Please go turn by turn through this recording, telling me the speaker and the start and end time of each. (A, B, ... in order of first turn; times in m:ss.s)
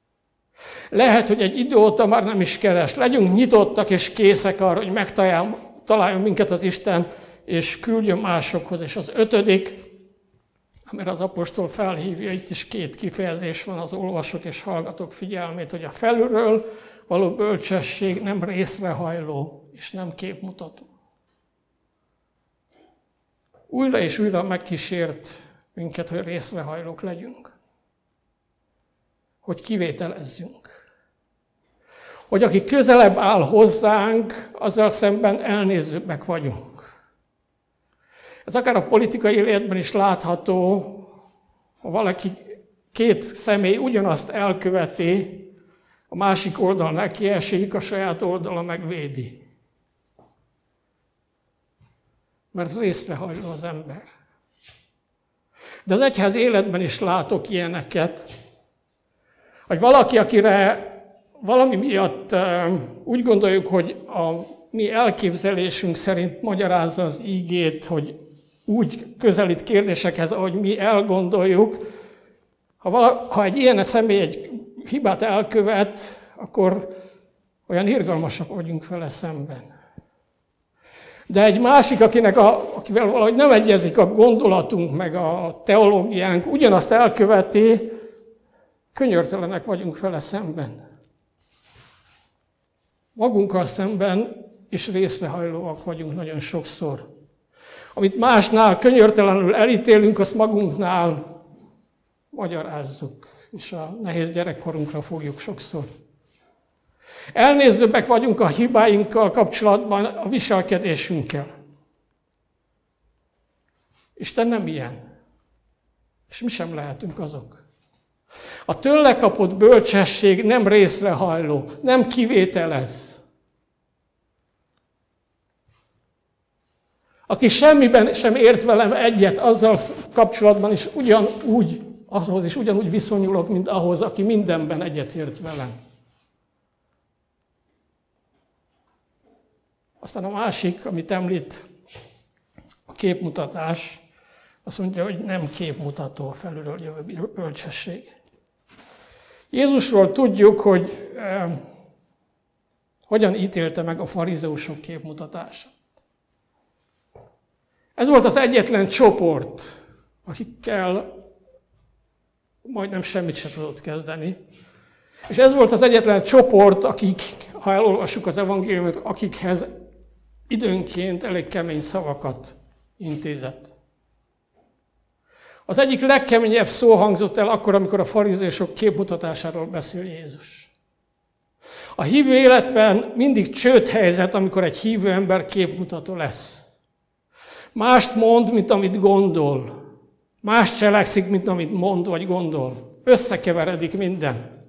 0:00.9-0:09.9 A
0:10.9-0:20.9 A
0:23.7-0:27.5 A
0:29.4-0:30.7 A
0:32.3-0:36.8 A
0:38.4-0:41.1 A
0:41.8-0:45.5 A
0:46.1-0:49.4 A
0:52.5-0:54.1 A
0:55.8-0:58.3 A
0:59.7-1:11.8 A
1:12.8-1:16.9 A
1:17.7-1:19.7 A
1:21.3-1:28.0 A
1:28.9-1:30.8 A
1:33.2-1:37.0 A
1:37.9-1:41.2 A
1:42.3-1:45.9 A
1:47.3-1:51.5 A
1:54.2-1:55.0 A
1:56.3-1:57.6 A
1:58.7-2:03.2 A
2:07.3-2:15.7 A
2:20.0-2:21.6 A
2:22.9-2:24.0 A
2:24.6-2:28.1 A
2:29.5-2:31.6 A
2:33.1-2:35.7 A
2:38.0-2:41.1 A
2:42.6-2:44.4 A
2:45.3-2:49.7 A
2:50.5-2:53.7 A
2:55.7-3:00.7 A
3:02.0-3:06.6 A
3:07.7-3:09.7 A
3:10.4-3:14.4 A